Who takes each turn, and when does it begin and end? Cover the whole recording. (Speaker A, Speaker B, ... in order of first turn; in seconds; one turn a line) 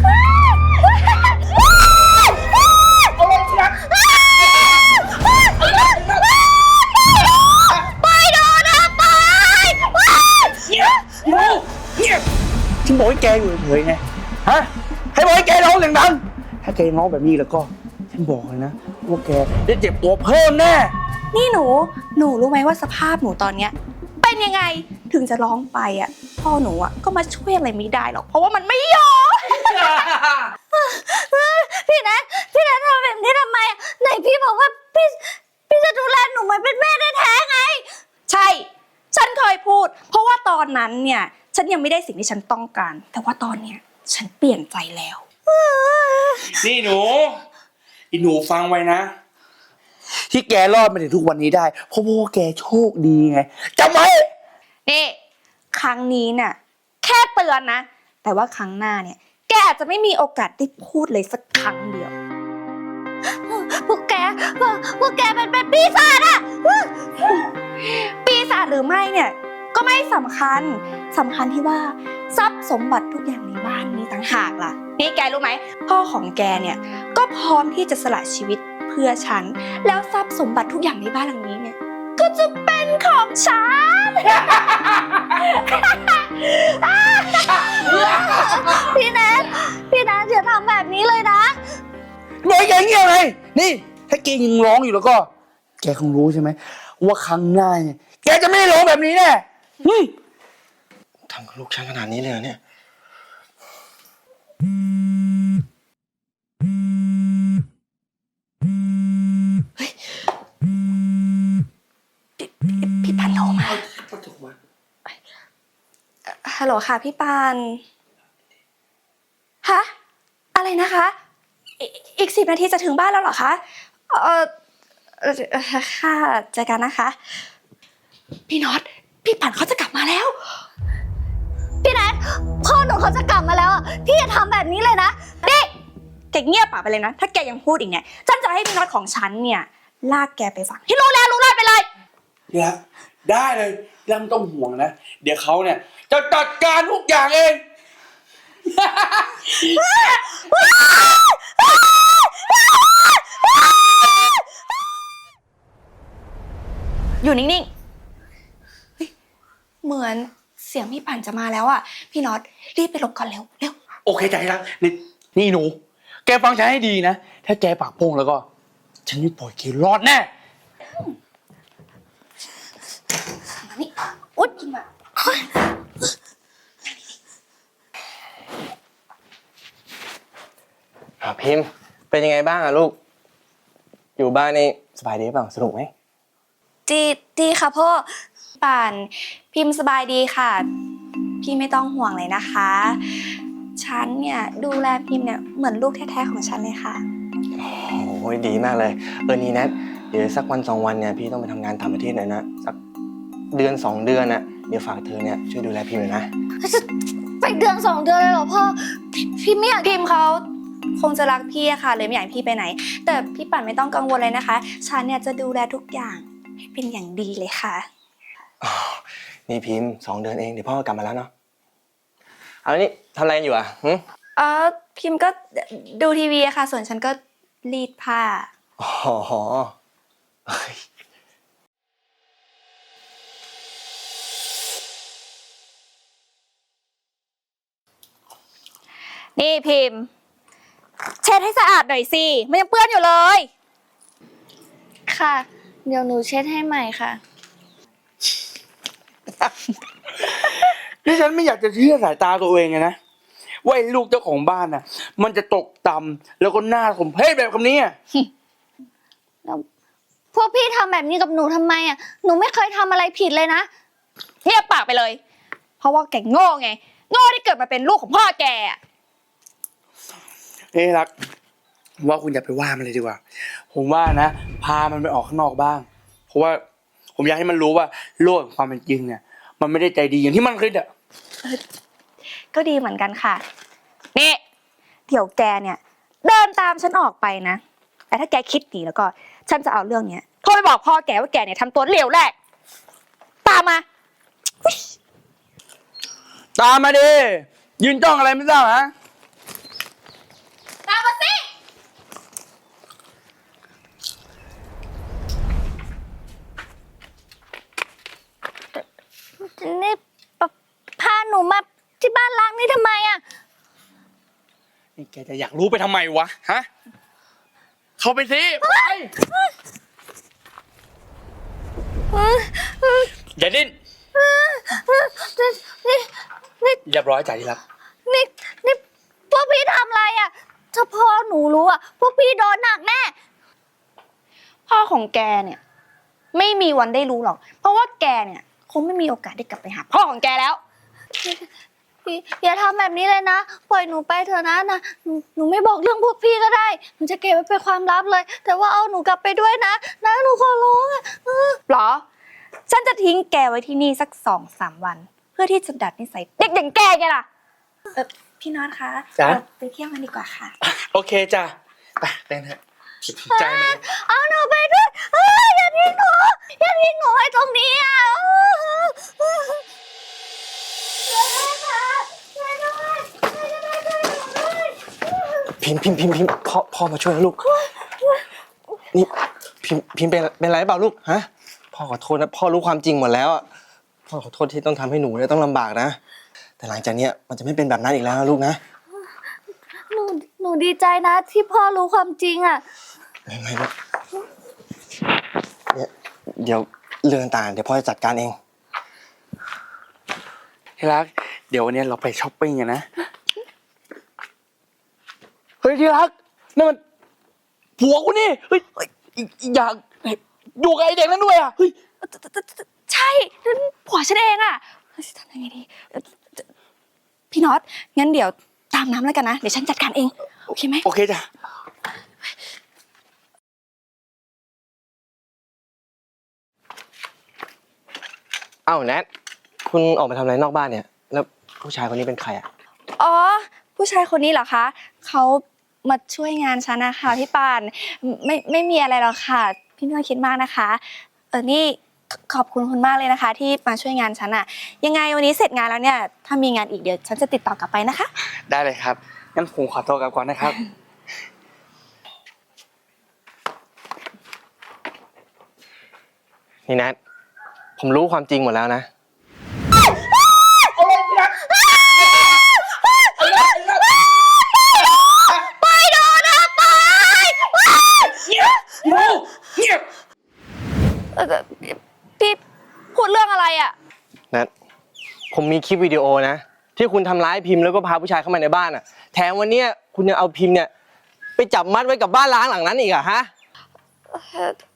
Speaker A: 0.3-1.6
Speaker B: 3.2-3.8
Speaker A: 3.9-6.5
Speaker B: 5.6-6.2
Speaker A: 7.9-10.6
Speaker B: 10.7-12.3
Speaker B: 12.8-20.9
Speaker C: 21.3-30.1
Speaker B: 30.0-30.4
Speaker A: 30.7-37.9
Speaker C: 38.3-45.2
Speaker A: 45.5-46.5
Speaker B: 46.5-47.4
Speaker B: 48.1-49.1
Speaker B: 50.3-54.3
Speaker C: 54.9-55.2
Speaker C: 55.7-62.1
Speaker A: 63.5-67.4
Speaker C: 67.8-84.8
Speaker C: 85.3-87.6
Speaker A: 87.1-91.6
Speaker B: 87.7-88.9
Speaker B: 92.4-95.3
Speaker B: 95.8-100.1
Speaker D: 101.3-102.6
Speaker C: 112.4-113.8
Speaker B: 113.7-114.5
Speaker C: 116.3-117.8
Speaker C: 119.6-119.9
Speaker C: 120.5-121.2
Speaker C: 121.8-124.5
Speaker C: 125.2-127.2
Speaker C: 128.5-130.6
Speaker A: 131.8-135.7
Speaker C: 136.3-141.9
Speaker B: 142.5-147.6
Speaker B: 148.7-149.7
Speaker C: 149.7-151.3
Speaker C: 157.2-157.7
Speaker C: 159.8-163.8
Speaker B: 164.1-168.5
Speaker B: 169.1-170.3
Speaker C: 173.6-174.9
Speaker D: 181.2-183.0
Speaker D: 184.2-185.9
Speaker C: 186.9-188.1
Speaker C: 188.6-190.7
Speaker C: 191.4-193.2
Speaker C: 193.8-197.0
Speaker D: 197.6-202.8
Speaker D: 203.5-206.3
Speaker A: 206.6-206.9
Speaker A: 207.4-209.9
Speaker C: 209.8-210.4
Speaker C: 211.0-217.9
Speaker D: 218.6-221.3
Speaker D: 222.7-224.0
Speaker C: 224.4-228.5
Speaker D: 228.8-229.7
Speaker D: 230.5-230.8
Speaker C: 239.4-240.1
Speaker C: 241.2-243.5
Speaker A: 245.1-247.2
Speaker B: 250.2-253.0
Speaker B: 253.6-257.9
Speaker A: 260.3-263.7
Speaker C: 264.4-265.2
Speaker C: 265.8-268.8
Speaker B: 270.7-271.1
Speaker B: 272.0-273.2
Speaker B: 273.7-276.6
Speaker B: 277.2-280.9
Speaker C: 282.5-283.4
Speaker C: 285.1-292.3
Speaker C: 293.4-293.8
Speaker B: 296.6-298.9
Speaker C: 300.9-301.4
Speaker A: 309.4-313.2
Speaker B: 315.0-316.7
Speaker B: 318.0-319.1
Speaker A: 318.6-319.5
Speaker A: 322.1-323.1
Speaker B: 323.4-323.8
Speaker A: 324.1-326.8
Speaker B: 326.9-327.6
Speaker A: 328.1-333.1
Speaker C: 334.7-335.6
Speaker C: 336.3-340.6
Speaker A: 341.1-341.5
Speaker A: 342.1-351.6
Speaker C: 351.7-352.0
Speaker C: 352.7-357.3
Speaker C: 357.9-360.6
Speaker B: 360.6-363.8
Speaker A: 363.3-369.6
Speaker A: 371.1-375.0
Speaker D: 375.6-377.6
Speaker D: 378.9-383.4
Speaker D: 384.1-386.0
Speaker D: 386.6-388.6
Speaker A: 389.9-392.6
Speaker D: 393.3-393.7
Speaker D: 395.7-398.4
Speaker B: 400.8-402.9
Speaker B: 405.6-406.8
Speaker B: 407.8-411.7
Speaker C: 412.0-416.1
Speaker C: 417.3-420.9
Speaker B: 420.8-421.3
Speaker D: 428.7-429.1
Speaker D: 429.7-432.5
Speaker C: 433.0-448.1
Speaker B: 448.5-450.6
Speaker D: 456.7-457.0
Speaker D: 457.8-458.9
Speaker B: 460.8-461.4
Speaker A: 461.6-462.3
Speaker B: 463.2-464.0
Speaker A: 465.6-467.9
Speaker B: 468.0-469.9
Speaker C: 471.1-472.4
Speaker C: 472.9-473.7
Speaker D: 475.3-480.7
Speaker D: 481.4-483.3
Speaker C: 484.1-484.6